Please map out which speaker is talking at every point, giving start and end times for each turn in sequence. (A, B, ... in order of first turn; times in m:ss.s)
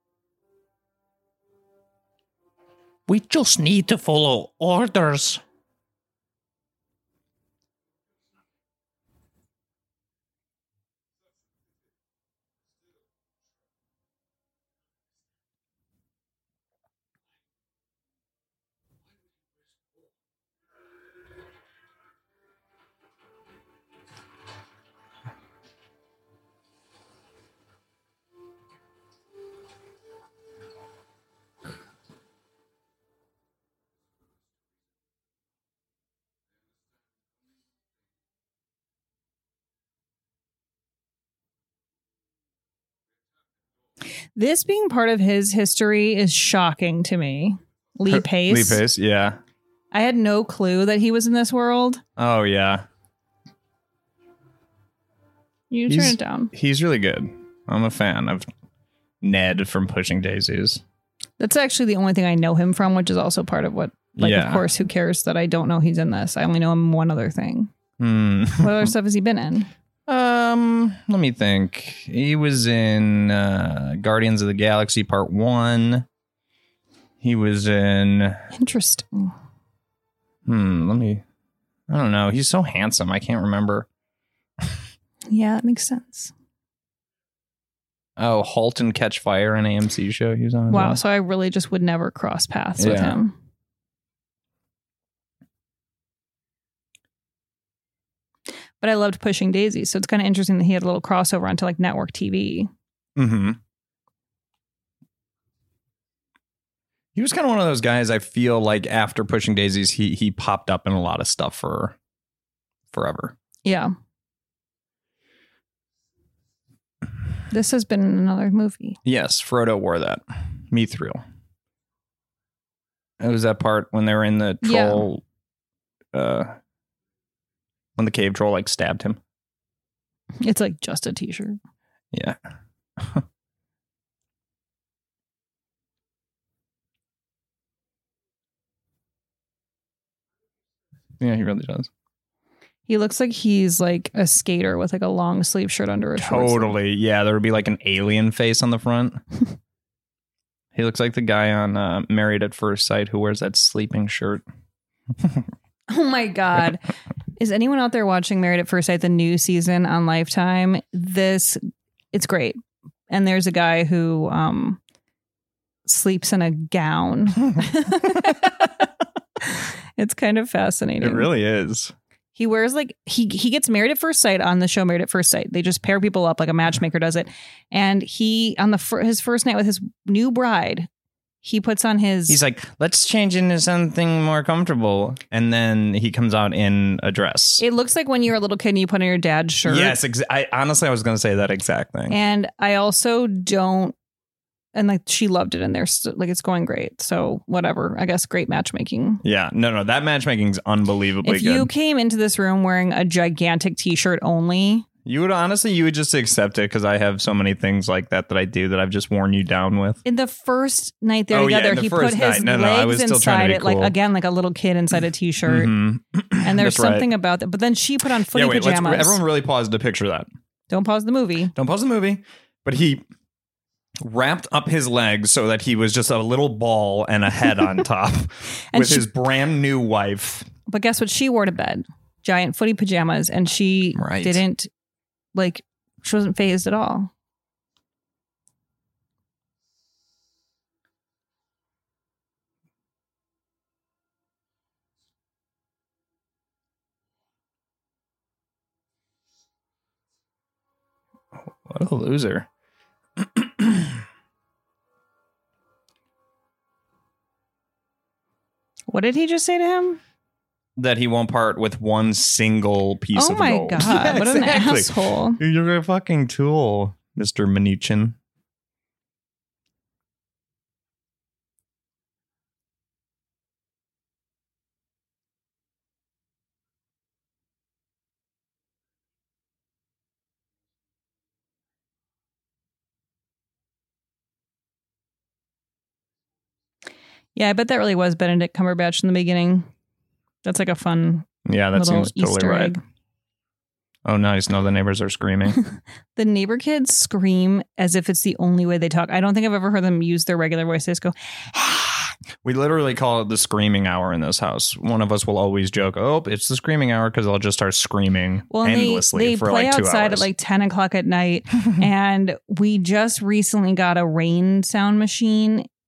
0:03.1-0:05.4 A
0:44.4-0:48.8 B
0:48.1-0:49.4 C
0:49.9-0:52.0 B
0:52.2-0:52.8 C
0:55.7-0:56.5 B
0:55.9-0:58.5 C
0:59.2-1:00.8 C
1:01.4-1:07.7 B
1:04.2-1:04.7 C
1:08.0-1:08.9 C
1:08.6-1:09.7 B
1:10.1-1:16.1 C
1:17.2-1:18.4 C
1:18.5-1:19.3 B
1:20.4-1:21.2 C
1:21.9-1:23.9 C
1:25.3-1:26.3 B
1:28.2-1:31.0 C
1:30.7-1:33.4 B
1:32.8-1:33.2 C
1:38.8-1:42.7 B
1:43.2-1:43.6 C
1:47.1-1:52.0 C
1:52.9-1:53.4 C
1:53.6-1:53.9 B
1:57.5-1:59.0 B
1:59.0-2:01.2 C
2:03.2-2:05.2 C
2:04.6-2:05.1 B
2:06.1-2:06.6 C
2:08.0-2:09.2 C
2:10.4-2:11.6 B
2:12.1-2:12.4 C
2:13.0-2:13.2 C
2:21.2-2:21.9 C
2:22.9-2:26.8 B
2:26.2-2:29.2 C
2:30.7-2:34.4 C
2:35.9-2:41.6 B
2:42.1-2:44.8 B
2:45.8-2:48.8 B
2:49.4-2:51.3 B
2:51.0-2:51.9 C
2:52.4-3:00.9 B
3:01.4-3:02.4 B
3:02.3-3:07.6 C
3:07.6-3:10.0 B
3:09.6-3:12.2 C
3:12.1-3:13.9 B
3:14.7-3:19.2 B
3:19.2-3:21.7 C
3:21.2-3:24.8 B
3:25.0-3:30.0 C
3:30.0-3:35.7 B
3:31.3-3:33.9 C
3:35.4-3:37.1 C
3:36.4-3:39.2 B
3:38.3-3:40.3 C
3:40.7-3:41.5 B
3:41.5-3:43.0 C
3:44.0-3:50.5 C
3:48.7-3:49.1 B
3:50.7-3:54.7 B
3:54.0-3:54.4 C
3:55.3-3:57.1 B
4:11.6-4:12.5 C
4:13.2-4:14.0 C
4:18.9-4:20.0 B
4:20.8-4:28.2 C
4:23.1-4:25.4 B
4:47.3-4:49.7 B
4:50.4-4:52.8 B
4:51.4-4:52.7 C
4:54.0-4:55.6 C
4:56.2-5:02.0 B
5:02.4-5:10.3 C
5:08.5-5:15.7 B